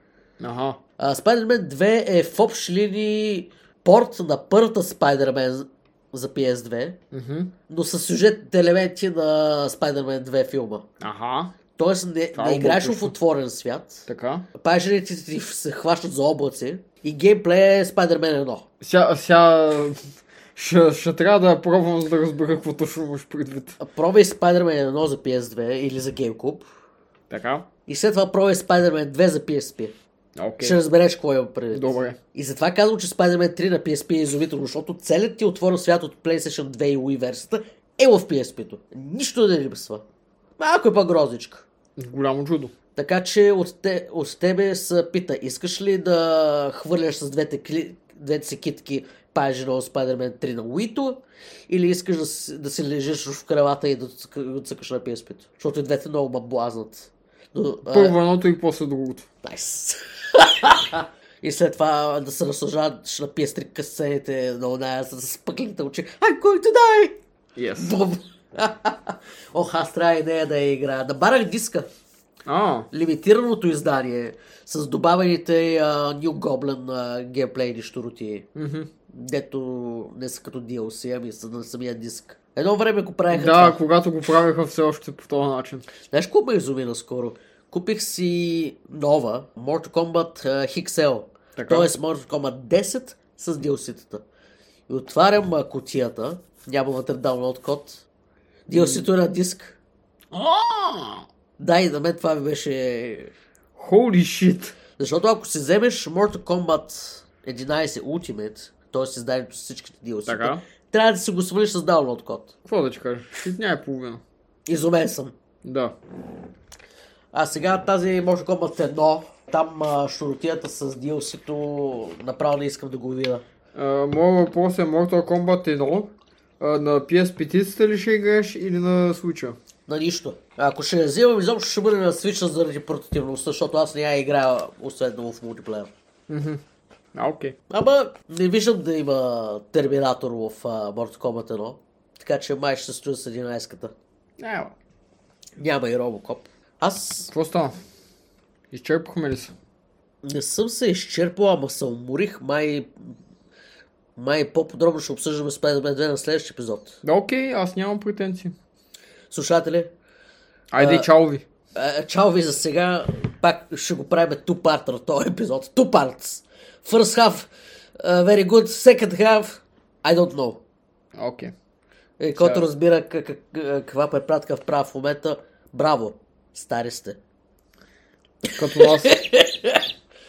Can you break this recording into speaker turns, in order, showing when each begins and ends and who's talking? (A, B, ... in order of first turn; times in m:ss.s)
0:00.4-0:00.8 A
0:01.0-0:07.0 B
0:07.1-0:07.5 A
0:07.7-0:10.8 B
0:11.0-0:11.5 A
0:11.8-0:18.6 B
0:12.4-0:13.1 A
0:14.1-0:14.4 A
0:18.8-0:23.8 A
0:23.8-0:26.7 B
0:27.3-0:27.7 A
0:27.9-0:29.9 B
0:30.4-0:30.8 A
0:30.6-0:40.0 B
0:31.7-0:32.2 A
0:40.6-0:41.7 B
0:42.0-0:42.7 A
0:43.0-0:58.2 B
0:57.9-0:59.3 A
0:59.4-1:07.2 B
1:07.6-1:07.9 A
1:07.8-1:11.9 B
1:12.4-1:12.9 A
1:12.9-1:18.5 B
1:18.5-1:18.9 A
1:19.1-1:23.8 B
1:23.3-1:25.8 A
1:26.1-1:34.2 B
1:31.6-1:31.9 A
1:34.9-1:38.0 B
1:38.7-1:39.8 B
1:38.7-1:39.1 A
1:40.3-1:41.2 A
1:41.6-1:43.3 B
1:43.8-1:44.7 A
1:45.0-1:52.5 B
1:50.2-1:50.6 A
1:52.6-1:54.2 A
1:54.7-1:55.3 B
1:55.6-1:56.0 A
1:57.3-2:03.4 B
2:03.7-2:09.6 A
2:09.9-2:15.9 B
2:16.3-2:16.6 A
2:17.1-2:17.5 A
2:17.7-2:23.9 B
2:24.4-2:24.7 A
2:25.6-2:27.3 B
2:27.3-2:27.8 A
2:28.7-2:29.5 A
2:30.2-2:32.9 B
2:34.2-2:37.0 B
2:37.0-2:38.5 A
2:39.3-2:39.9 B
2:40.7-2:41.4 A
2:40.8-2:41.1 B
2:41.7-2:50.6 B
2:51.1-2:51.5 A
2:52.2-2:57.2 B
2:52.3-2:52.6 A
2:58.4-2:59.9 B
2:58.6-2:59.1 A